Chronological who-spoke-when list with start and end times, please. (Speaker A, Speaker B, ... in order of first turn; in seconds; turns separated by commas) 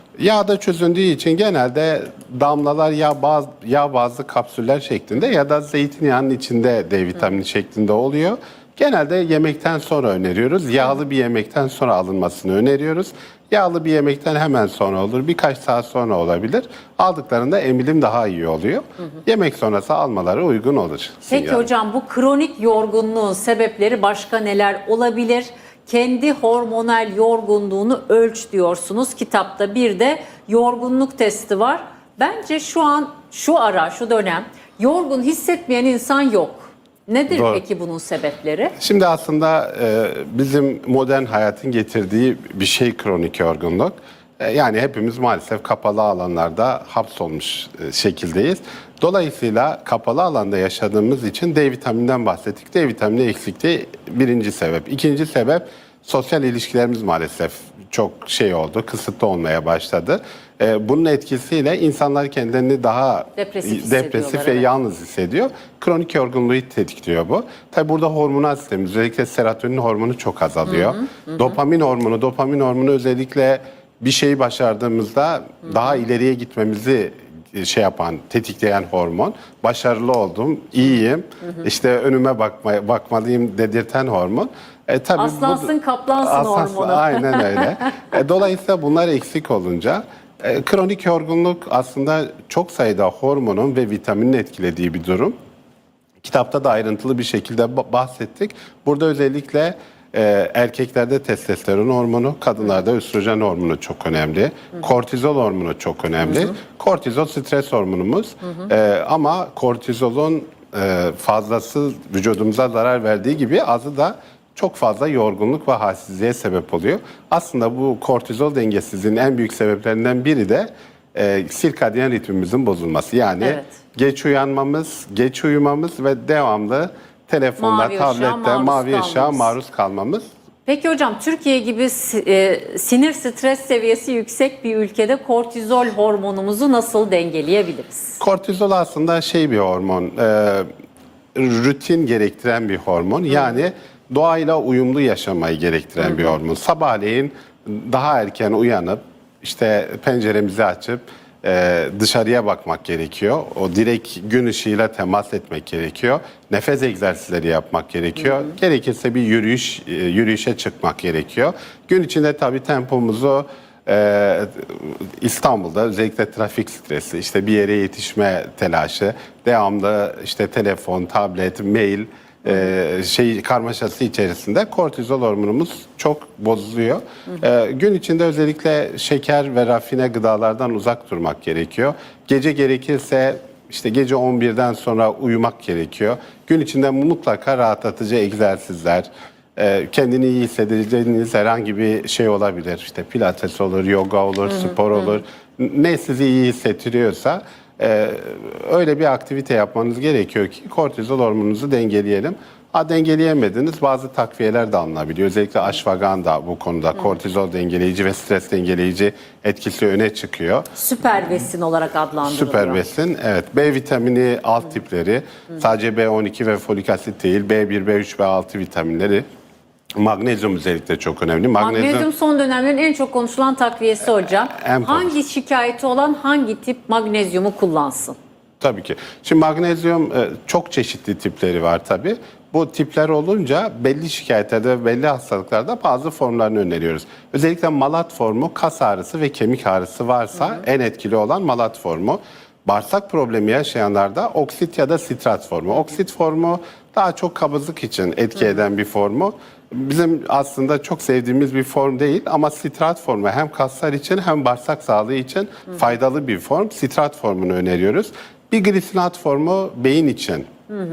Speaker A: 0.2-21.7, Speaker B: 21.3-38.8, Speaker A: 37.3-37.6, Speaker A: 38.8-95.3, Speaker B: 63.4-64.7, Speaker B: 70.9-71.3, Speaker B: 85.2-87.9, Speaker A: 96.2-130.3, Speaker B: 123.4-123.7, Speaker B: 127.6-129.5, Speaker B: 130.7-138.2, Speaker A: 138.2-140.7, Speaker A: 141.3-210.7, Speaker B: 210.7-212.8, Speaker A: 212.2-219.2, Speaker A: 219.9-222.1, Speaker B: 221.6-228.2, Speaker A: 224.5-225.1, Speaker A: 228.6-260.5